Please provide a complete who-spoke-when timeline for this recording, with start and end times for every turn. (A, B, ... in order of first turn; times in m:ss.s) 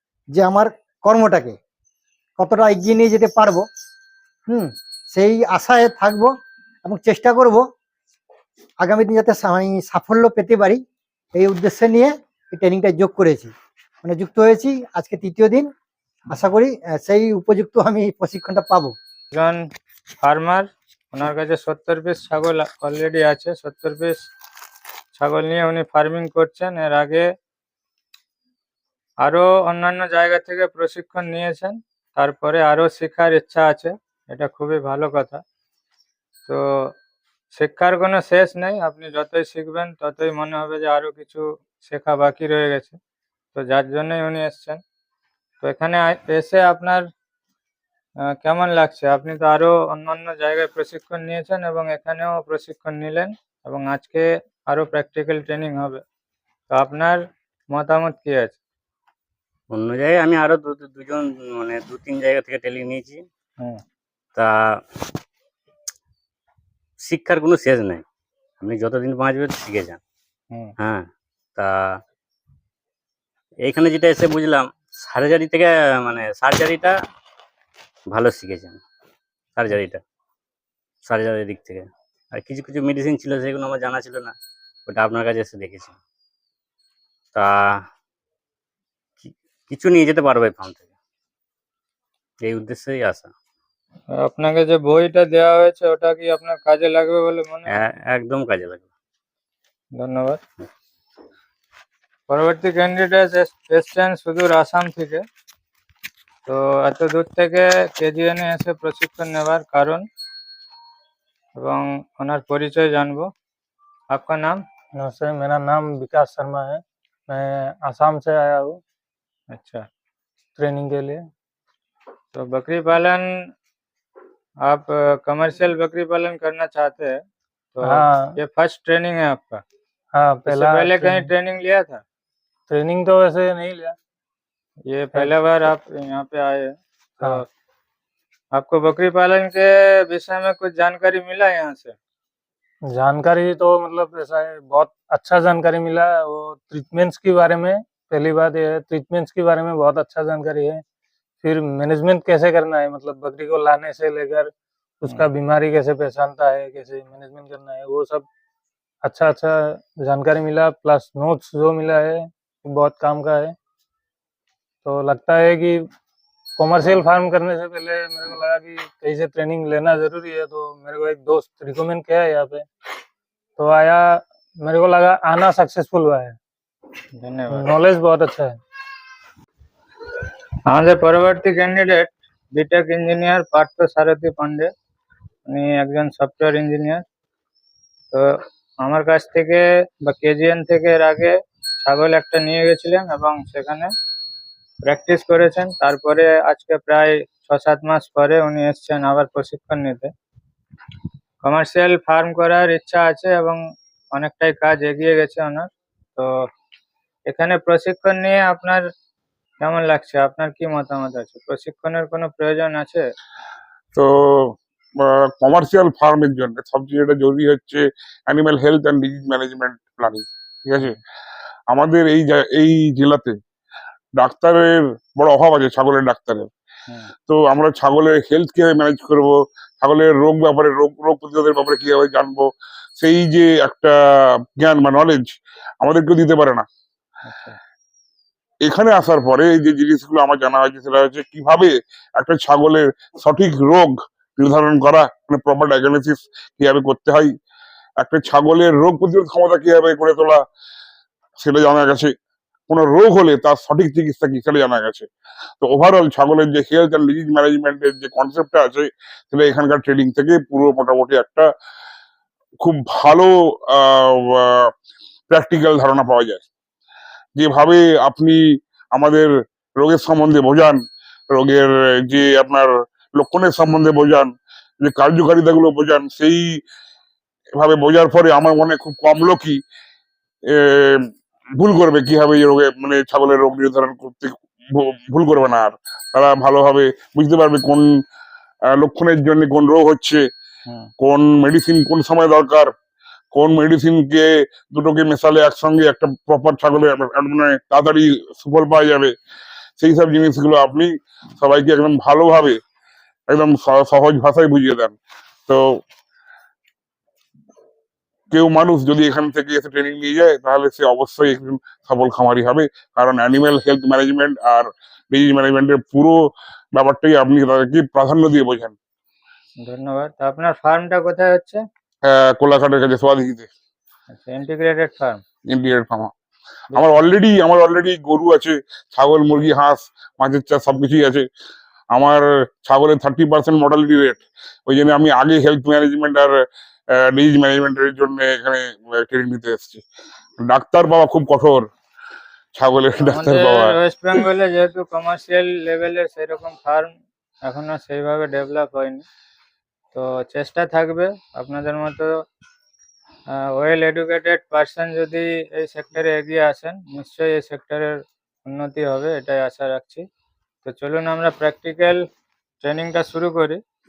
0:00.3-0:01.6 A
0:02.4-0:03.7 A
0:04.5-0:06.3 A
0:06.8-0:07.6 A
0:08.8-0:10.8 A
0:11.3-0:13.5 A
0:14.0-0:15.7 A
0:16.3-0:18.9 A
0:19.3-0:19.6 B
0:20.2-0:24.2 B
0:25.1-0:27.2 B
0:29.2-0:35.4 B
0:36.5-0:36.9 B
0:37.6-0:43.0 B
0:43.5-0:44.8 B
0:45.6-0:47.1 B
0:48.4-0:56.0 B
0:56.7-0:58.6 B
0:59.7-1:03.2 C
1:04.4-1:04.8 C
1:07.0-1:08.0 C
1:08.6-1:10.0 C
1:10.8-1:12.0 C
1:13.6-1:17.0 C
1:18.1-1:18.8 C
1:19.6-1:20.0 C
1:21.0-1:24.3 C
1:24.9-1:25.9 C
1:27.3-1:27.7 C
1:29.2-1:30.8 C
1:32.4-1:33.3 C
1:34.2-1:37.8 B
1:37.7-1:38.8 C
1:40.0-1:40.4 B
1:42.3-1:45.2 B
1:46.5-1:50.0 B
1:51.6-1:53.3 B
1:54.1-1:54.6 B
1:55.0-1:58.8 D
1:59.5-1:59.8 B
2:00.6-2:01.3 D
2:02.3-2:03.3 B
2:04.6-2:07.2 B
2:07.8-2:09.6 B
2:07.8-2:08.3 D
2:10.1-2:11.3 D
2:10.5-2:12.0 B
2:12.7-2:14.0 D
2:14.9-2:17.4 B
2:18.5-2:22.0 B
2:22.9-2:30.8 D
2:31.4-2:38.2 D
2:39.0-2:43.5 D
2:44.8-2:45.9 D
2:46.6-2:52.6 D
2:53.6-2:56.4 D
2:57.2-2:57.8 B
2:57.5-2:58.6 D
3:00.7-3:04.7 B
3:05.5-3:07.0 B
3:08.8-3:13.9 B
3:14.8-3:20.1 B
3:21.4-3:23.6 B
3:24.1-3:26.3 B
3:27.3-3:28.8 B
3:29.6-3:33.0 B
3:33.9-3:41.0 E
3:41.7-3:43.4 E
3:44.2-3:46.5 E
3:47.3-3:56.7 E
3:57.2-3:57.6 B
3:58.6-4:07.3 E
4:08.0-4:10.4 E
4:11.4-4:12.1 E
4:12.7-4:15.1 E
4:15.6-4:21.5 E
4:22.6-4:24.7 E
4:25.3-4:26.4 E
4:27.4-4:28.4 E
4:28.9-4:30.8 E
4:31.3-4:36.6 E
4:37.6-4:39.6 E
4:40.5-4:47.8 E
4:48.7-4:50.2 E
4:51.0-4:52.7 E
4:53.3-4:59.1 E
4:59.8-5:02.6 E
5:03.3-5:05.0 E
5:05.5-5:05.8 E
5:08.3-5:16.2 E
5:16.7-5:18.7 E
5:19.6-5:21.6 B
5:22.0-5:23.5 E
5:24.1-5:25.2 B
5:25.5-5:26.1 E
5:26.7-5:31.2 E
5:31.9-5:36.3 E
5:36.9-5:39.8 E
5:40.4-5:41.7 E
5:42.5-5:43.8 E
5:43.1-5:46.9 B
5:47.4-5:49.0 B
5:49.9-5:52.1 B
5:53.5-6:00.0 B
6:00.6-6:02.0 B
6:02.6-6:03.6 B